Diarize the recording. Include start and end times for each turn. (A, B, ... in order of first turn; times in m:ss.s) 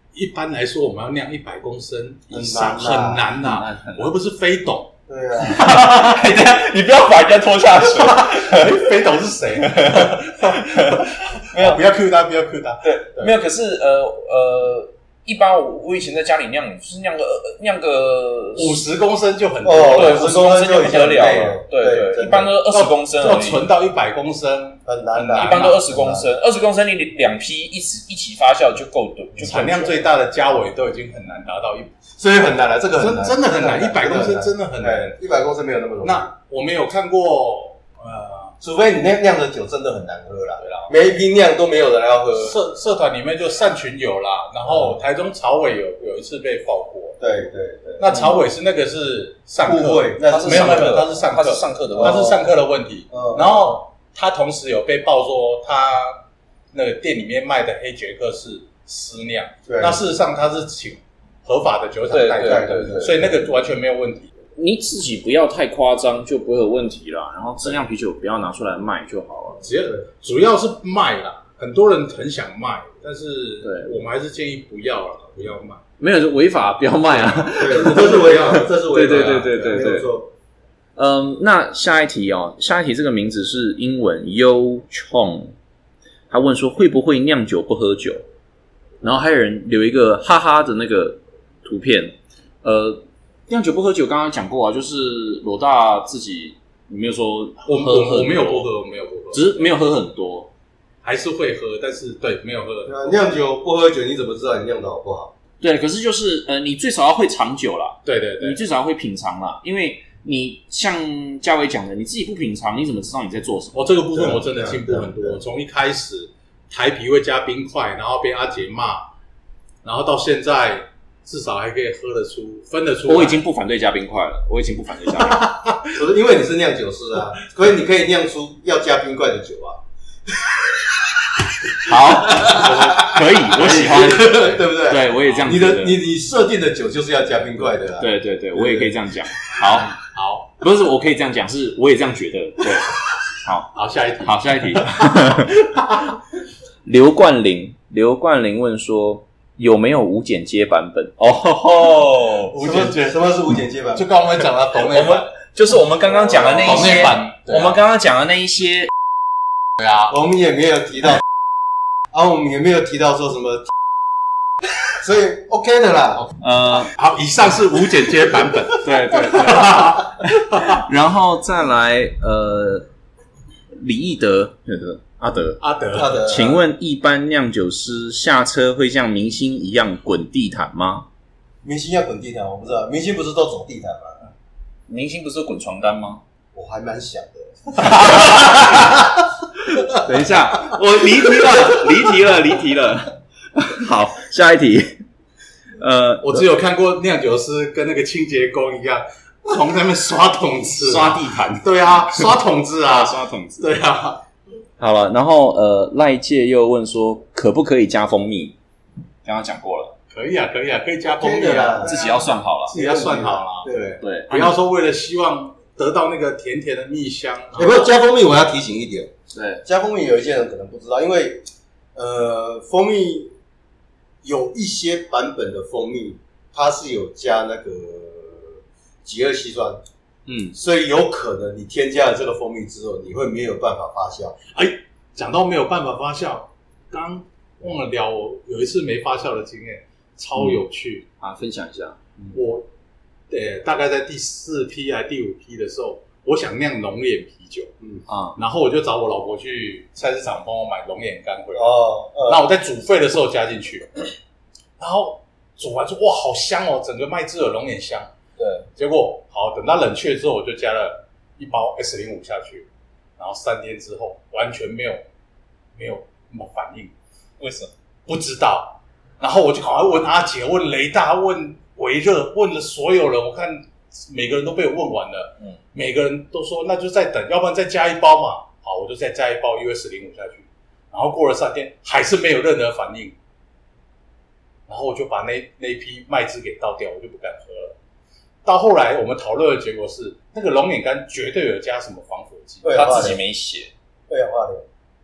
0:00.1-0:04.9 A
0:02.3-0:03.3 B
0:03.4-0:04.1 C
0:05.1-0:05.6 B
0:05.4-0:09.0 C
0:05.6-0:05.8 A
0:07.8-0:13.3 A
0:09.6-0:11.6 C
0:12.8-0:18.8 C
0:18.6-0:20.5 A
0:19.6-0:22.5 B
0:19.8-0:23.7 C
0:22.7-0:25.8 A
0:24.9-0:26.3 B
0:25.4-0:30.0 C
0:29.4-0:31.9 A
0:32.2-0:36.3 B
0:33.0-0:35.2 A
0:36.0-0:38.6 A
0:38.6-0:42.6 B
0:40.6-0:41.0 A
0:42.4-0:47.2 A
0:44.7-0:45.0 B
0:47.2-0:48.1 B
0:48.0-1:04.3 A
0:48.1-0:48.4 C
0:49.6-0:51.1 B
0:50.3-0:52.3 C
0:51.9-0:52.4 B
0:53.1-0:53.8 B
0:59.7-1:00.0 B
1:02.1-1:03.2 C
1:02.4-1:03.4 B
1:04.6-1:09.6 C
1:09.6-1:15.8 A
1:13.6-1:13.9 C
1:16.0-1:20.1 C
1:17.4-1:19.6 A
1:17.6-1:20.3 B
1:21.0-1:25.5 C
1:26.3-1:28.2 C
1:29.0-1:38.7 C
1:37.6-1:39.7 A
1:39.3-1:40.5 C
1:41.0-1:43.0 A
1:42.9-1:45.3 B
1:45.6-1:54.0 C
1:48.0-1:48.6 A
1:53.8-1:59.0 A
1:54.1-1:55.4 B
1:59.8-2:03.4 A
2:03.1-2:05.6 C
2:05.1-2:06.0 A
2:05.9-2:09.8 B
2:11.8-2:16.0 C
2:12.3-2:18.9 B
2:12.4-2:14.6 A
2:18.0-2:19.9 C
2:19.8-2:20.5 A
2:20.6-2:25.6 C
2:23.7-2:26.1 A
2:26.8-2:32.5 C
2:32.5-2:33.2 A
2:32.6-2:34.0 B
2:33.9-2:35.3 A
2:34.9-2:38.9 C
2:36.6-2:37.8 A
2:39.8-2:40.1 A
2:40.1-2:41.2 B
2:42.1-2:43.7 B
2:45.0-2:46.3 B
2:46.4-2:46.9 C
2:46.9-2:50.8 A
2:48.8-2:52.9 C
2:53.7-3:01.1 C
2:55.6-2:56.5 A
2:55.9-2:56.6 B
3:01.6-3:04.2 B
3:04.9-3:06.2 C
3:06.5-3:09.0 B
3:07.8-3:09.0 A
3:08.3-3:08.6 C
3:09.9-3:15.0 C
3:15.8-3:16.5 C
3:16.2-3:24.2 A
3:20.8-3:22.3 C
3:22.8-3:23.7 C
3:24.8-3:28.6 C
3:29.2-3:29.9 C
3:30.1-3:33.7 A
3:31.0-3:32.0 B
3:31.8-3:32.8 C
3:32.7-3:34.0 B
3:34.0-3:34.6 C
3:34.3-3:37.9 A
3:37.6-3:39.1 B
3:39.3-3:39.6 C
3:39.6-3:43.3 B
3:44.2-3:49.8 B
3:50.3-3:50.6 A
3:50.5-3:54.4 B
3:54.5-4:01.1 A
4:01.2-4:02.0 C
4:02.3-4:02.6 A
4:03.3-4:07.7 A
4:08.1-4:08.4 C
4:08.4-4:14.1 A
4:11.6-4:12.4 B
4:14.8-4:18.1 A
4:18.4-4:18.7 C
4:18.8-4:22.7 A
4:23.2-4:25.0 A
4:25.8-4:26.9 A
4:27.4-4:27.7 C
4:28.1-4:43.2 A
4:44.7-4:47.8 A
4:48.4-4:53.1 A
4:52.6-4:53.2 B
4:52.7-4:53.7 C
4:54.1-4:54.6 B